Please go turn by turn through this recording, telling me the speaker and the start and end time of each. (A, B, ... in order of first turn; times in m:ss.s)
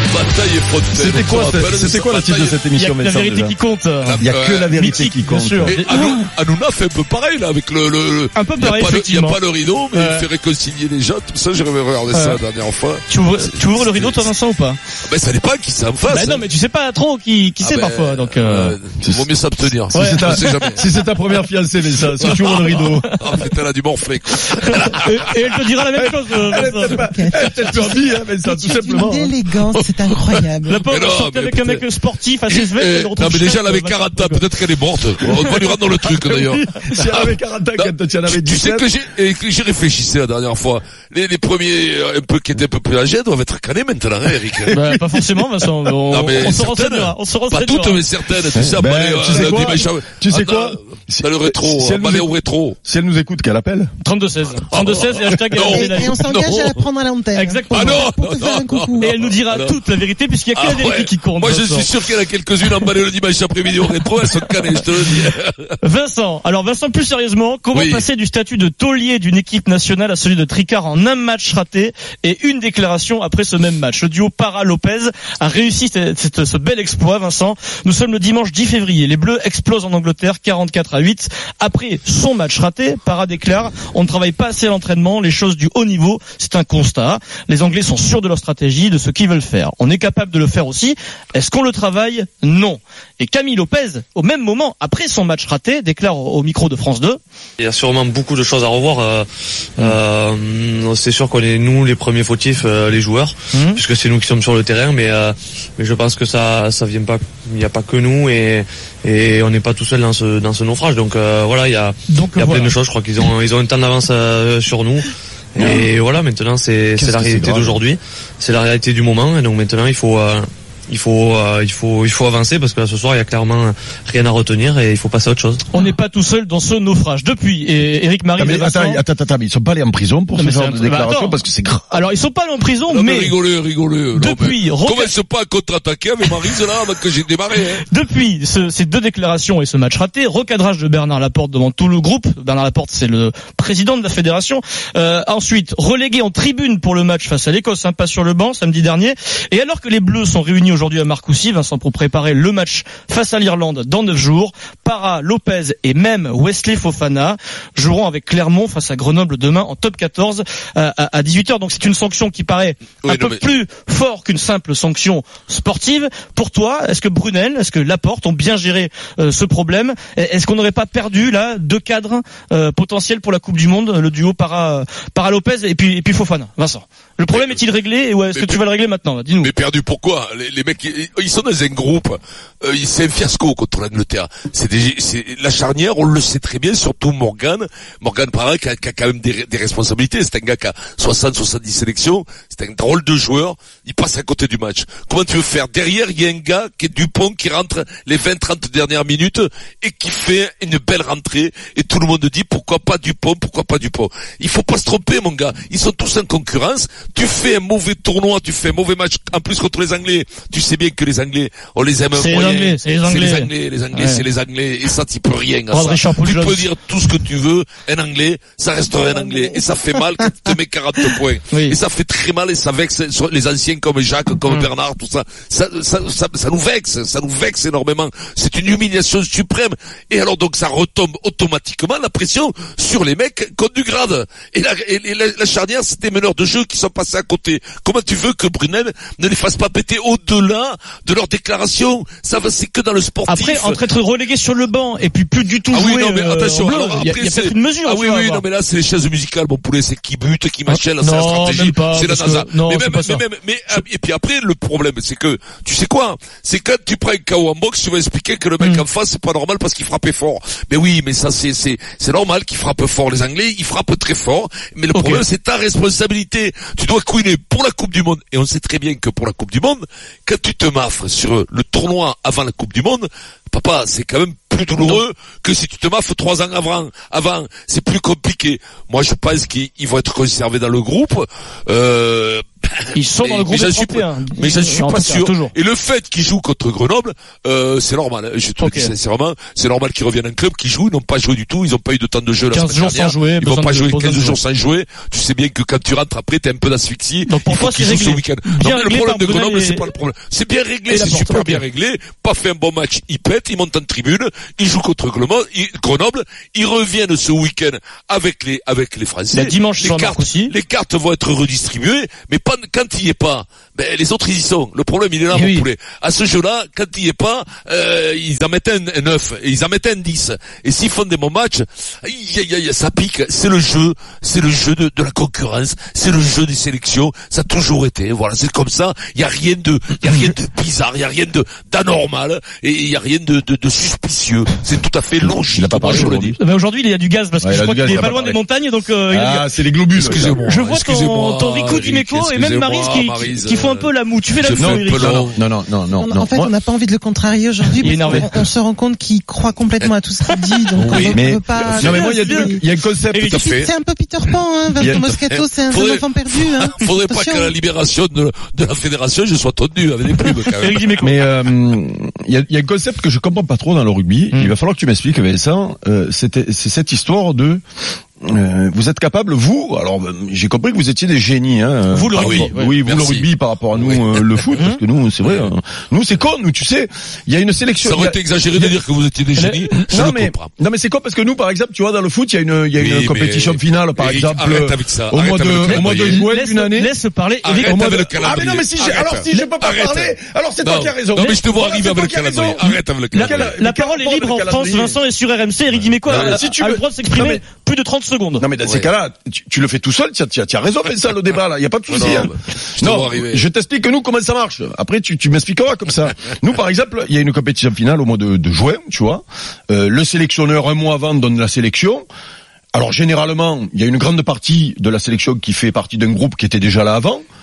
0:00.1-0:02.6 A
0:00.9-0:03.6 B
0:02.8-0:06.3 C
0:04.0-0:04.8 A
0:04.2-0:05.8 B
0:05.7-0:14.3 A
0:08.4-0:09.4 C
0:09.9-0:10.3 C
0:12.1-0:12.4 C
0:13.1-0:14.8 C
0:15.0-0:16.4 A
0:16.1-0:18.8 C
0:17.6-0:20.9 A
0:19.0-0:19.3 B
0:19.9-0:23.1 B
0:19.9-0:20.7 C
0:22.2-0:25.3 A
0:22.7-0:23.1 C
0:24.9-0:27.0 C
0:26.0-0:29.3 B
0:26.9-0:30.8 D
0:29.8-0:31.8 A
0:30.7-0:34.5 C
0:32.5-0:44.8 A
0:35.2-0:36.7 C
0:36.9-0:38.9 B
0:44.6-0:45.0 B
0:44.7-0:48.0 C
0:46.1-0:52.8 A
0:48.6-0:52.3 B
0:52.8-0:53.9 B
0:54.0-0:56.2 C
0:54.7-0:56.8 A
0:55.6-0:59.3 D
0:57.4-0:58.1 C
0:57.7-0:59.8 A
0:59.0-1:01.9 C
1:00.6-1:05.7 A
1:05.8-1:37.2 C
1:07.7-1:08.1 A
1:37.6-2:05.6 E
1:43.5-1:43.8 C
1:52.1-1:52.7 C
1:55.6-1:55.9 B
1:57.0-1:57.8 B
2:05.7-2:09.0 C
2:08.4-2:12.0 B
2:10.4-2:11.4 C
2:11.9-2:13.3 C
2:12.9-2:17.8 A
2:14.2-2:15.1 C
2:17.9-2:59.5 C
2:43.0-2:43.5 A
2:57.3-2:57.6 A
2:58.3-2:58.6 A
2:59.4-4:03.8 A
3:32.1-3:34.2 C
3:35.7-3:36.7 C
3:41.5-3:41.8 C
4:03.3-4:08.5 C
4:05.7-5:36.4 A
4:10.7-4:13.8 C
4:24.9-4:25.2 C
4:42.9-4:45.5 C
4:48.6-4:48.9 C
4:52.5-4:54.4 C
4:57.3-4:59.8 C
5:00.9-5:01.6 C
5:09.3-5:10.5 C
5:15.3-5:15.7 C
5:35.5-5:36.3 B
5:35.9-5:39.5 C
5:37.4-5:38.4 B
5:39.1-5:40.4 B
5:40.0-5:45.4 A
5:40.4-5:45.4 C
5:44.6-5:46.5 B
5:46.0-5:52.6 D
5:47.8-5:48.3 C
5:50.8-5:51.1 C
5:50.8-5:52.0 A
5:51.1-5:53.4 B
5:51.8-5:53.5 C
5:53.2-5:53.7 A
5:53.4-5:57.6 D
5:54.8-6:01.0 A
6:00.6-6:01.2 C
6:01.0-6:07.6 B
6:08.2-6:18.8 B
6:11.9-6:12.7 C
6:12.2-6:14.5 A
6:15.2-6:15.5 A
6:17.8-6:20.5 A
6:19.4-6:19.8 C
6:19.9-6:26.9 B
6:22.8-6:26.2 A
6:25.7-6:28.4 C
6:27.4-6:33.6 A
6:27.6-6:35.0 B
6:33.1-6:38.4 C
6:36.0-6:36.4 A
6:36.1-6:37.4 B
6:38.4-6:52.1 B
6:41.9-6:43.5 A
6:52.7-6:57.2 B